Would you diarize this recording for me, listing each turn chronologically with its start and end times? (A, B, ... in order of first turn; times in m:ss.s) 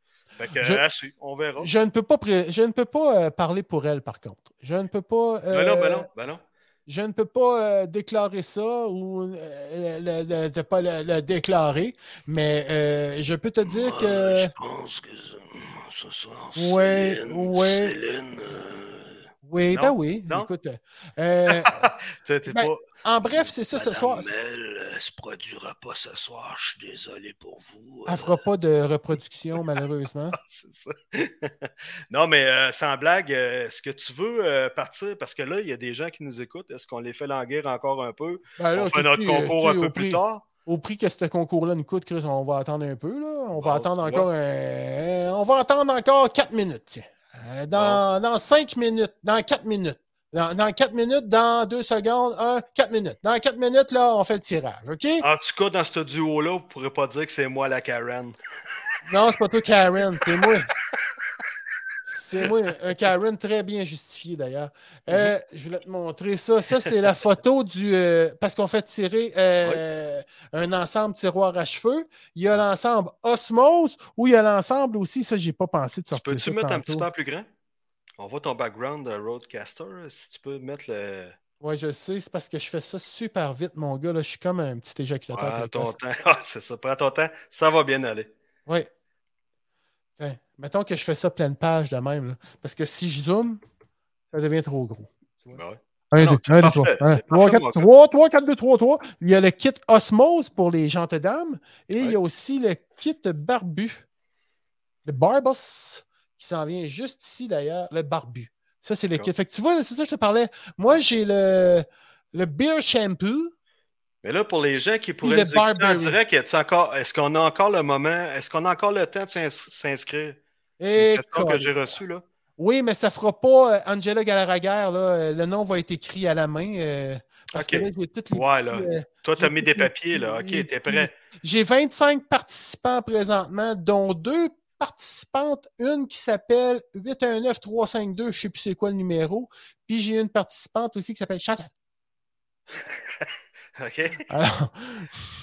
0:00.4-0:01.7 A
0:00.6-0:00.8 B
0:01.6-0:06.1 B
0:05.5-0:06.4 A
0:06.9-0:14.5 B
0:13.7-0:20.5 A
0:16.6-0:18.0 B
0:19.4-0:21.9 B
0:21.5-0:22.8 A
0:22.5-0:24.3 B
0:23.4-0:28.4 A
0:28.1-0:30.4 B
0:30.4-0:40.4 A
0:38.6-0:55.2 B
0:43.6-0:44.3 A
0:47.7-0:48.0 A
0:55.2-0:58.4 A
0:59.1-1:00.7 B
1:02.1-1:17.1 B
1:05.1-1:05.3 A
1:16.1-1:17.5 A
1:18.2-1:21.4 A
1:21.6-1:26.0 B
1:25.3-1:28.3 A
1:30.2-1:33.6 B
1:34.3-1:35.6 B
1:35.5-1:37.9 A
1:36.1-1:44.0 B
1:45.0-1:53.5 B
1:54.2-2:00.4 A
1:55.2-1:56.2 B
2:00.8-2:01.8 B
2:01.0-2:02.2 A
2:02.6-2:21.7 B
2:07.5-2:11.1 A
2:23.8-2:24.3 A
2:24.3-2:25.1 B